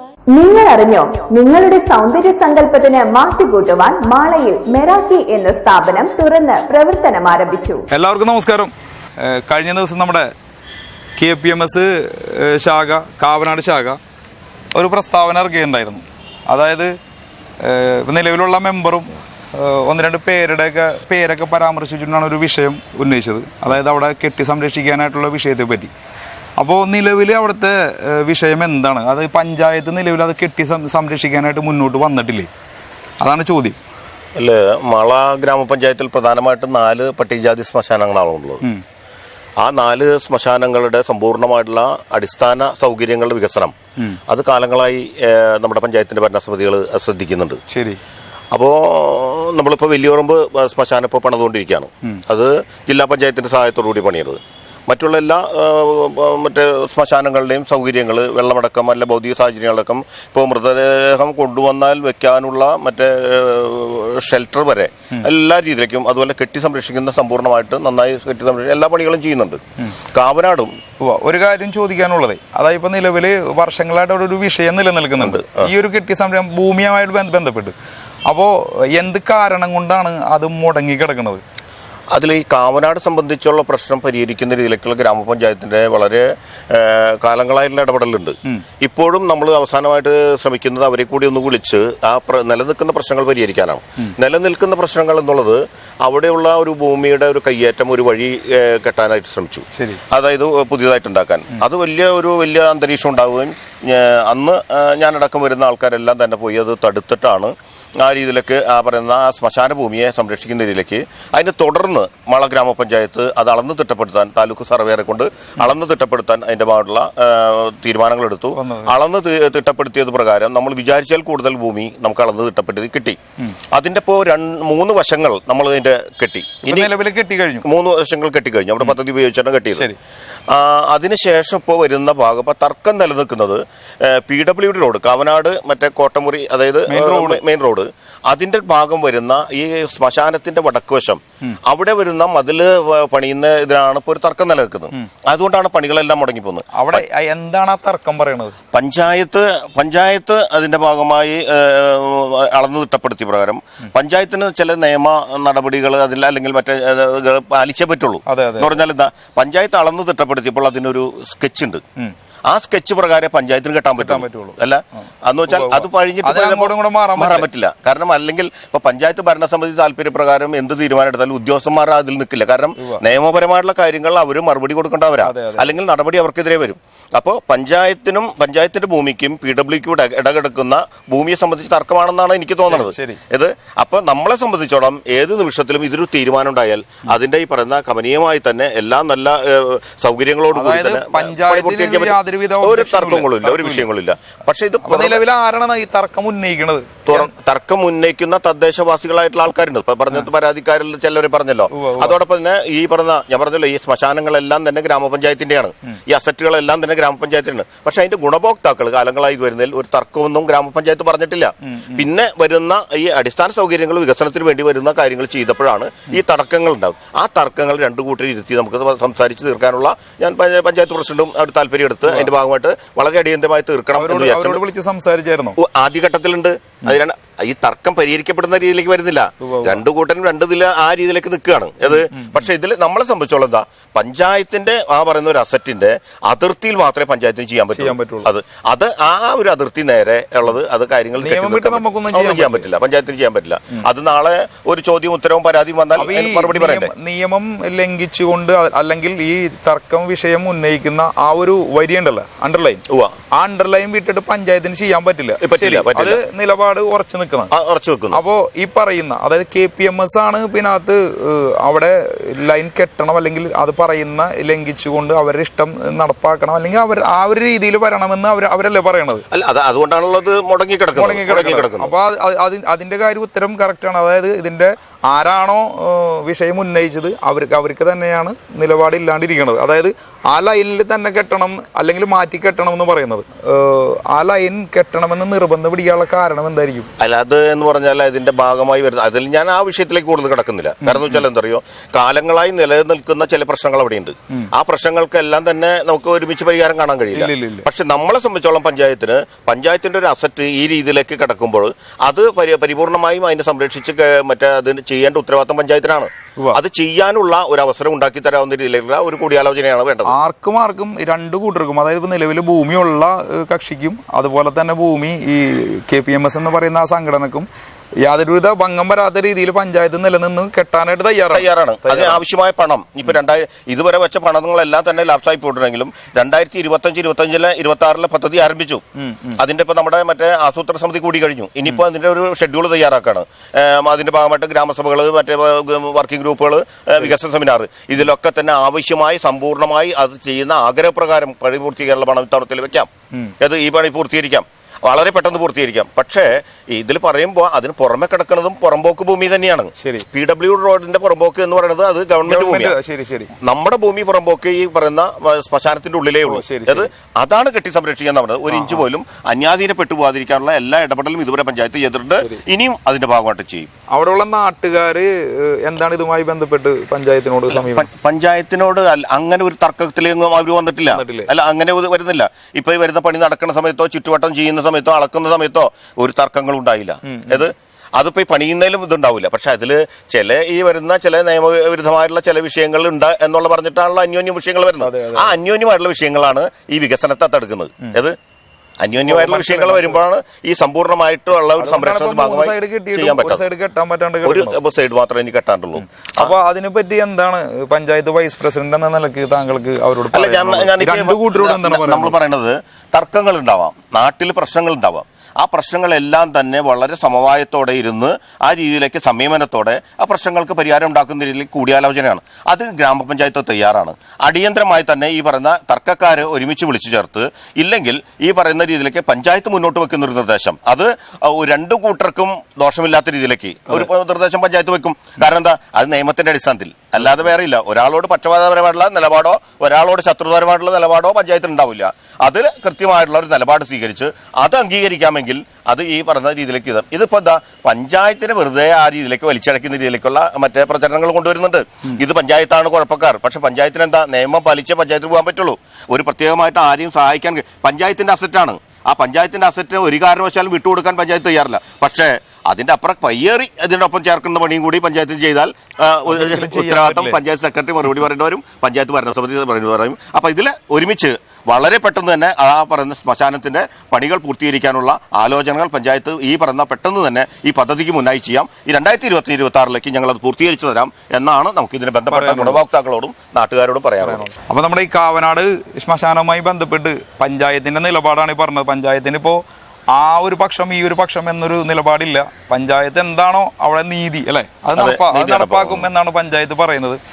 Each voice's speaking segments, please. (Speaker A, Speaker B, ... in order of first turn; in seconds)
Speaker A: 0.3-7.8
Speaker B: 7.9-10.3, 11.2-14.0, 14.7-16.9, 17.6-25.9, 26.6-32.5, 33.2-33.8, 47.7-48.0, 71.0-81.4, 99.7-100.0, 118.5-118.9, 126.6-127.7, 136.9-137.4, 146.7-148.6, 158.2-158.7, 164.0-164.6, 165.5-167.5, 175.2-175.7, 182.7-183.2, 190.5-193.8, 194.8-197.3, 201.7-202.2, 211.7-212.1, 222.0-222.3, 223.9-225.6, 229.4-229.8, 231.8-232.4, 237.7-238.3, 241.2-242.7, 245.9-257.5, 258.1-269.2, 270.9-286.9, 290.8-291.2, 297.1-297.7, 310.0-317.5, 318.0-322.2, 329.0-329.4, 349.8-350.1, 352.2-353.3, 356.2-356.9, 358.5-358.8, 363.9-367.9, 370.9-371.3, 377.0-377.5, 384.8-385.3, 389.0-390.0, 391.6-394.6, 396.2-402.1, 456.1-457.2, 472.1-472.6, 474.0-479.4, 479.9-487.0
Speaker C: 34.4-38.6, 39.6-43.7, 44.3-47.6, 48.5-69.6, 70.1-70.7, 75.2-75.7, 82.1-123.2, 123.7-126.9, 127.6-129.9, 130.5-147.0, 148.7-161.8, 162.5-195.2, 197.1-224.6, 225.6-246.9, 252.9-253.1, 255.4-256.2, 257.5-258.2, 269.3-271.9, 287.0-310.1, 321.3-328.8, 329.4-352.8, 353.4-363.7, 367.5-388.2, 388.8-393.4, 394.2-396.4, 400.1-474.3, 484.8-485.9